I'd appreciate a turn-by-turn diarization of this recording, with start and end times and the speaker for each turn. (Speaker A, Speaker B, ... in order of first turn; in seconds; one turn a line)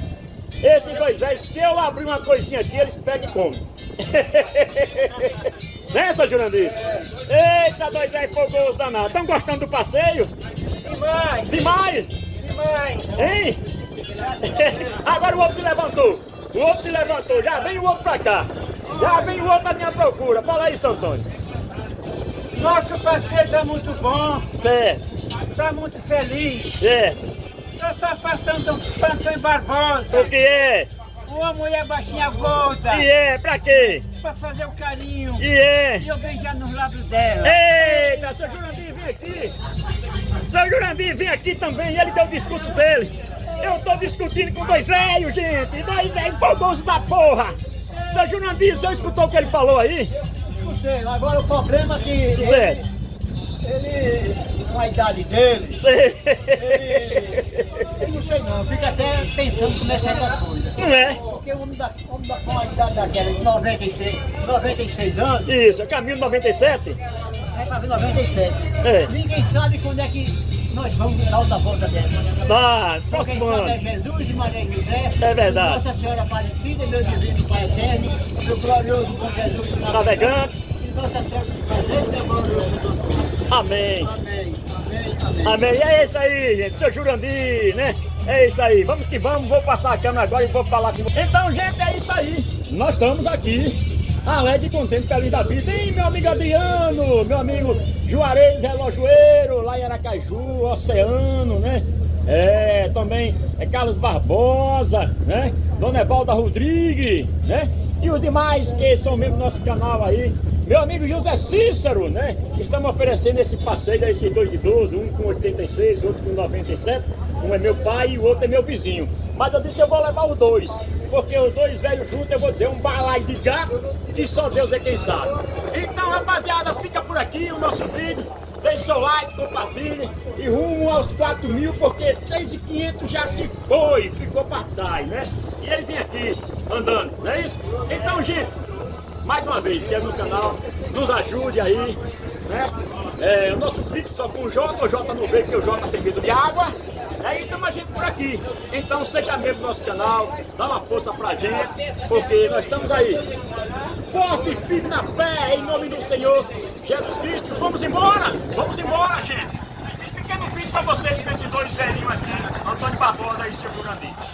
Speaker A: 0.6-10.3
Speaker B: 10.8-11.7
Speaker A: 11.4-12.2
Speaker B: 12.4-13.2
Speaker A: 13.1-13.6
Speaker A: 14.4-21.3
Speaker B: 18.9-19.3
Speaker B: 22.5-24.5
Speaker A: 24.6-25.0
Speaker B: 25.5-26.8
Speaker A: 26.8-27.2
Speaker B: 27.8-30.3
Speaker A: 30.1-30.9
Speaker B: 31.2-33.1
Speaker A: 32.9-34.0
Speaker B: 33.7-35.5
Speaker A: 35.4-36.1
Speaker B: 36.0-38.4
Speaker A: 37.4-39.5
Speaker A: 40.5-47.5
Speaker A: 48.1-50.1
Speaker C: 50.5-52.8
Speaker A: 52.3-52.8
Speaker C: 53.6-55.8
Speaker A: 55.8-57.8
Speaker C: 56.5-65.5
Speaker A: 60.8-61.2
Speaker A: 65.5-67.0
Speaker C: 67.5-72.4
Speaker A: 68.8-69.1
Speaker A: 72.5-73.8
Speaker C: 73.1-83.4
Speaker A: 75.2-75.8
Speaker A: 79.9-80.5
Speaker A: 83.5-84.1
Speaker C: 84.0-85.7
Speaker A: 85.4-138.5
Speaker A: 139.2-153.2
Speaker A: 154.1-164.2